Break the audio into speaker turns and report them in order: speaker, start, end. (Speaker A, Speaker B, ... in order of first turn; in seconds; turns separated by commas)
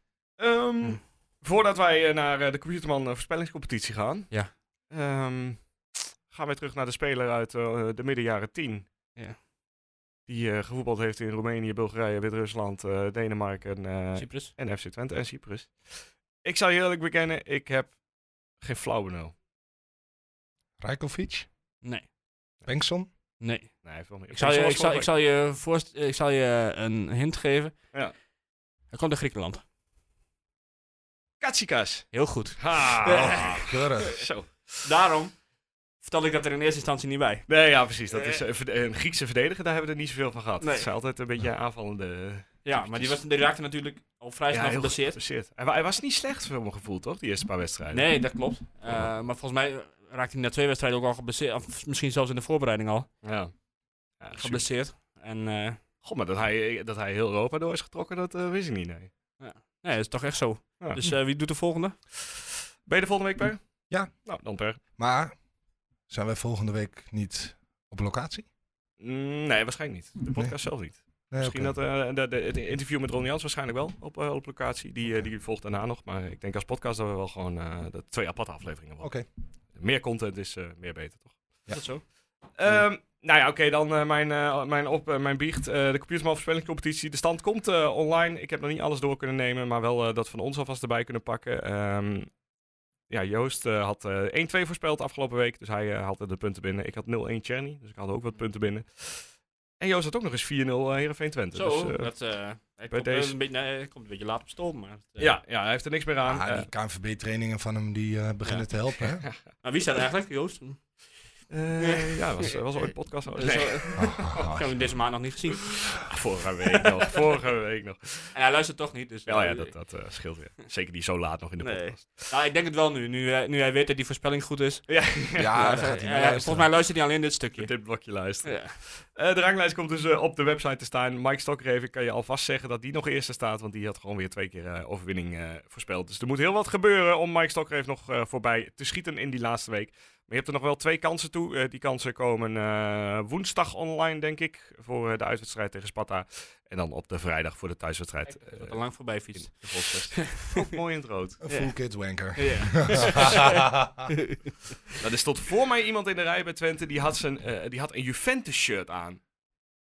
Speaker A: 0.4-8.9, Speaker A: 10.3-18.0, Speaker B: 14.2-14.5, Speaker A: 18.6-19.3, Speaker C: 20.8-21.5, Speaker B: 21.8-22.1, Speaker C: 22.7-23.1, Speaker B: 23.4-27.8, Speaker A: 23.8-25.1, Speaker B: 28.9-29.6, Speaker A: 31.4-34.9, Speaker B: 32.1-34.1, Speaker C: 33.1-34.2, Speaker B: 34.8-35.4, Speaker B: 36.0-37.5, Speaker A: 37.5-43.2, Speaker B: 38.1-38.4, Speaker B: 40.6-40.9, Speaker B: 42.6-45.2, Speaker A: 44.5-48.1, Speaker B: 47.9-53.1, Speaker A: 53.2-53.6, Speaker A: 54.2-54.6, Speaker B: 54.3-55.8, Speaker A: 56.0-59.1, Speaker B: 59.4-62.0, Speaker A: 60.8-61.2, Speaker A: 62.1-64.8, Speaker C: 63.9-64.3, Speaker C: 64.9-65.4, Speaker C: 66.1-68.5, Speaker A: 69.0-81.6, Speaker C: 71.3-71.8, Speaker C: 79.0-79.3, Speaker C: 81.7-81.9, Speaker B: 81.7-82.0, Speaker A: 82.5-92.3, Speaker A: 93.1-102.1, Speaker B: 101.5-105.3, Speaker A: 102.9-103.3, Speaker A: 105.2-106.7, Speaker C: 106.3-109.2, Speaker B: 109.6-111.0, Speaker A: 111.5-114.6, Speaker B: 111.8-112.5, Speaker B: 113.4-116.1, Speaker C: 114.0-114.9, Speaker A: 115.9-118.4, Speaker B: 118.3-119.7, Speaker A: 119.3-122.3, Speaker B: 121.6-124.9, Speaker A: 124.9-125.6, Speaker C: 125.3-126.7, Speaker B: 125.5-127.8, Speaker A: 127.6-151.4, Speaker B: 128.4-128.8, Speaker B: 148.3-150.7, Speaker C: 151.4-154.1, Speaker B: 152.3-154.5, Speaker A: 155.0-159.2